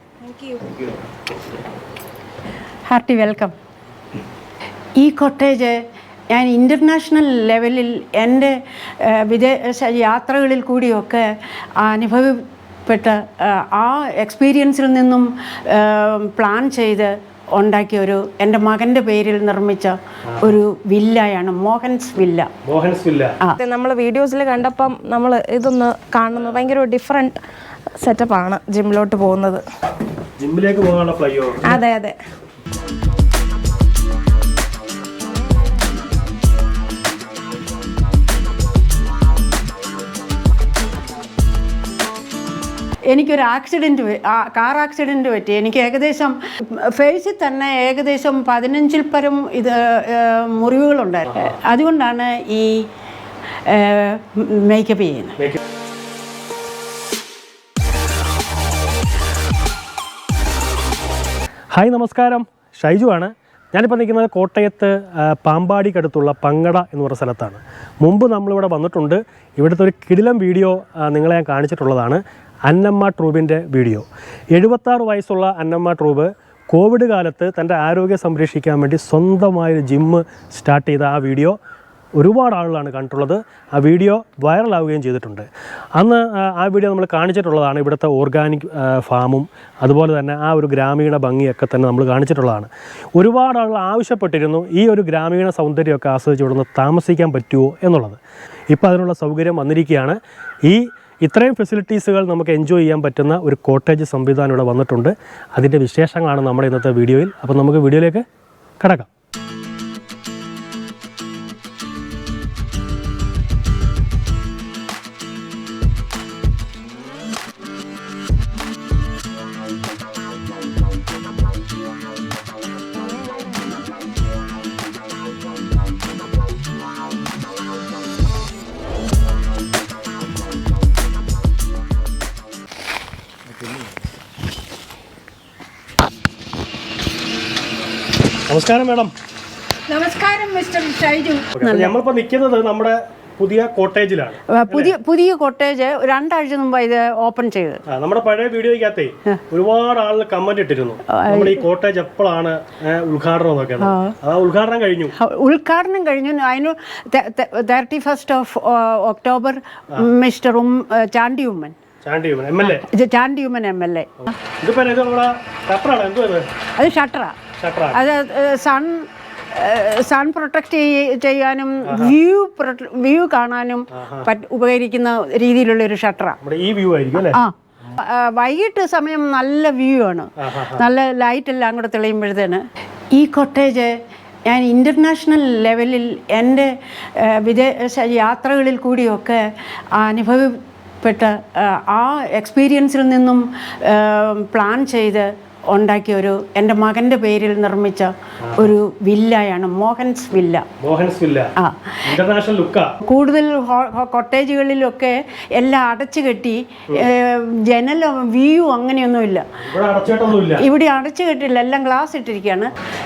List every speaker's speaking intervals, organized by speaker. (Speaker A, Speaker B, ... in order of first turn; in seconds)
Speaker A: 0.2-0.6, 23.6-27.4, 28.0-29.6, 31.6-32.1
Speaker B: 2.9-3.5, 5.0-5.8, 6.3-22.5, 43.1-52.9, 53.7-55.4, 139.9-141.9, 144.5-147.8, 151.1-151.6, 153.8-154.1, 155.2-161.7, 162.6-164.3, 166.8-167.3, 167.9-176.4, 177.2-183.9, 184.4-189.4, 189.9-200.7, 201.6-202.0, 203.1-209.5, 210.3-212.7
Speaker C: 22.6-23.3, 26.4-26.6, 30.4-31.8, 61.7-81.6, 82.2-98.2, 98.7-108.2, 108.8-109.1, 138.5-139.1, 141.6-144.9, 147.9-155.1, 162.0-162.9, 164.6-166.5, 167.6-168.0, 171.8-172.1, 173.9-174.3, 176.4-177.4, 180.4-180.8, 200.8-201.5, 202.0-202.9, 209.6-210.6